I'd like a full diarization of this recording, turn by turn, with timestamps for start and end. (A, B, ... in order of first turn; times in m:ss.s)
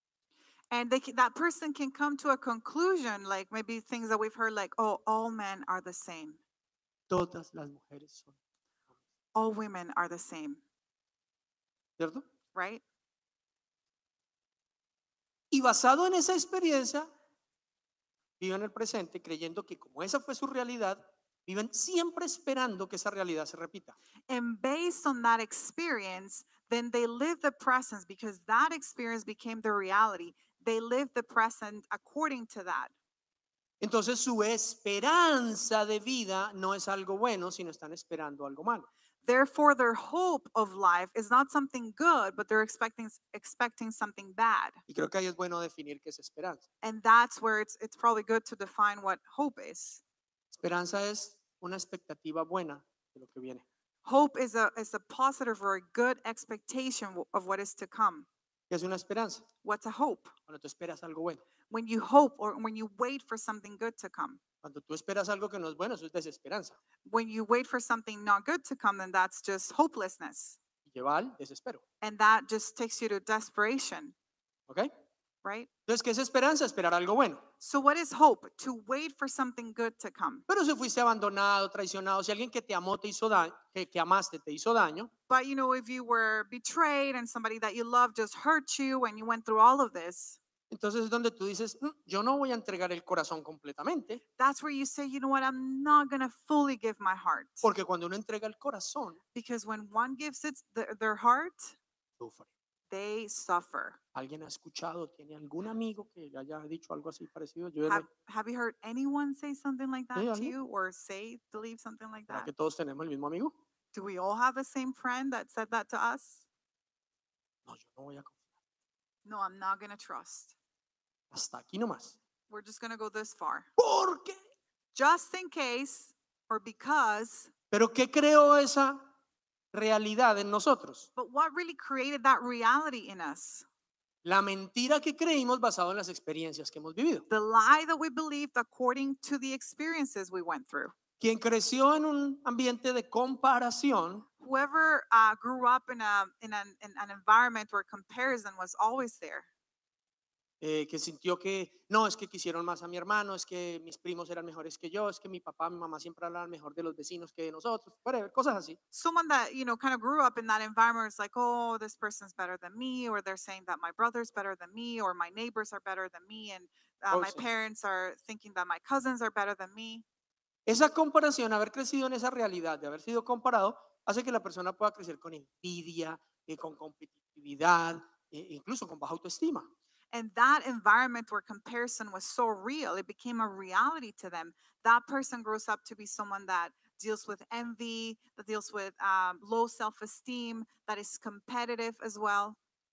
0:00.7-0:06.4 A
0:07.1-0:08.3 B
0:09.3-0:10.6 A
0:12.0-0:12.2 B
0:12.5-0:12.8 A
0:15.5-0:17.1 B
0:18.4-0:24.0 B
0:24.3-0:32.9 A
0:33.8-0:38.9 B
0:39.2-0:44.8 A
0:44.9-0:46.6 B
0:46.8-0:50.0 A
0:50.5-0:53.6 B
0:54.0-0:58.3 A
0:58.7-0:59.4 B
0:59.6-1:00.3 A
1:00.5-1:01.4 B
1:01.7-1:04.4 A
1:04.6-1:06.8 B
1:07.0-1:10.6 A
1:10.8-1:11.8 B
1:12.0-1:14.1 A
1:15.4-1:15.7 A
1:15.9-1:17.4 B
1:17.6-1:20.4 A
1:20.5-1:25.1 B
1:25.3-1:30.4 A
1:30.7-1:34.2 B
1:34.4-1:37.6 A
1:37.6-1:39.2 B
1:39.3-1:41.8 A
1:42.2-1:42.5 B
1:42.9-1:44.0 A
1:44.1-1:48.0 B
1:47.9-1:52.5 A
1:50.1-1:50.5 B
1:52.3-1:53.5 B
1:53.9-1:56.4 A
1:57.7-1:58.4 B
1:59.2-2:00.5 A
2:01.3-2:02.2 B
2:02.5-2:03.7 A
2:03.8-2:04.4 B
2:04.9-2:07.5 A
2:07.7-2:09.0 B
2:09.7-2:11.1 B
2:11.2-2:13.6 A
2:14.2-2:17.2 B
2:17.3-2:20.9 A
2:21.2-2:24.3 B
2:24.4-2:29.5 A
2:30.6-2:38.8 B
2:38.9-2:50.0 A
2:47.1-2:47.4 B
2:50.7-2:59.7 B
3:00.1-3:12.6 A